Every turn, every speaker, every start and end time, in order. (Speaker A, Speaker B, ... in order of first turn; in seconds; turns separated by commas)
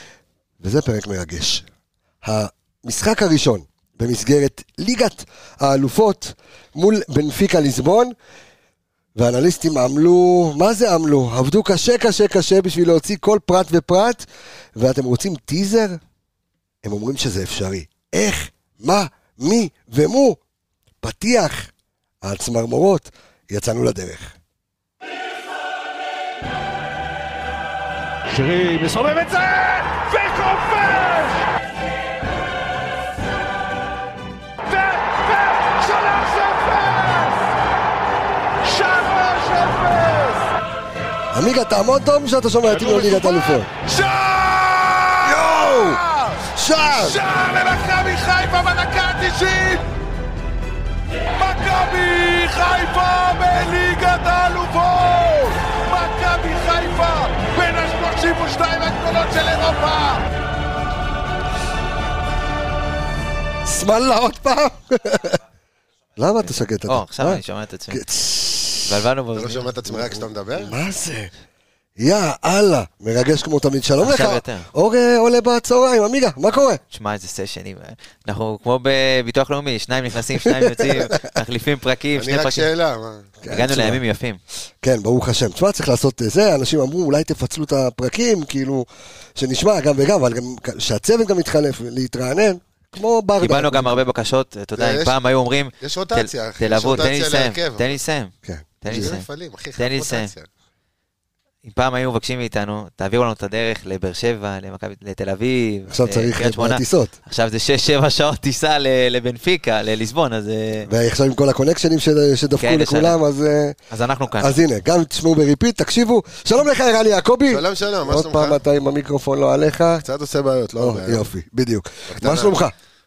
Speaker A: 0.6-1.6, Speaker A: 2.2-8.1, Speaker A: 9.2-14.2, Speaker A: 14.8-16.0, Speaker A: 16.8-20.4, Speaker A: 21.0-21.7, Speaker A: 22.2-24.3, Speaker B: 28.3-31.4, Speaker B: 34.7-37.5, Speaker B: 38.6-40.5, Speaker A: 41.3-43.7, Speaker B: 42.7-46.5, Speaker A: 45.2-46.0, Speaker A: 46.5-47.2, Speaker B: 47.0-49.8, Speaker B: 51.3-60.3, Speaker A: 63.6-65.4, Speaker A: 66.2-69.0, Speaker C: 66.4-68.0, Speaker C: 68.9-69.7, Speaker D: 69.3-70.7, Speaker A: 70.5-71.3, Speaker A: 72.0-76.8, Speaker C: 74.0-74.7, Speaker C: 76.8-82.7, Speaker A: 80.7-81.1, Speaker D: 82.1-83.3, Speaker A: 83.4-84.0, Speaker C: 83.5-84.4, Speaker A: 84.8-94.0, Speaker C: 93.4-99.2, Speaker D: 94.8-95.1, Speaker D: 95.8-97.9, Speaker A: 98.5-99.1, Speaker D: 98.9-100.5, Speaker C: 99.8-100.3, Speaker C: 101.6-110.9, Speaker A: 105.9-107.1, Speaker A: 110.9-113.8, Speaker C: 112.6-113.2, Speaker C: 113.9-114.5, Speaker A: 114.4-120.0, Speaker D: 117.5-118.6, Speaker D: 120.0-121.2, Speaker A: 120.8-122.7, Speaker D: 122.1-122.6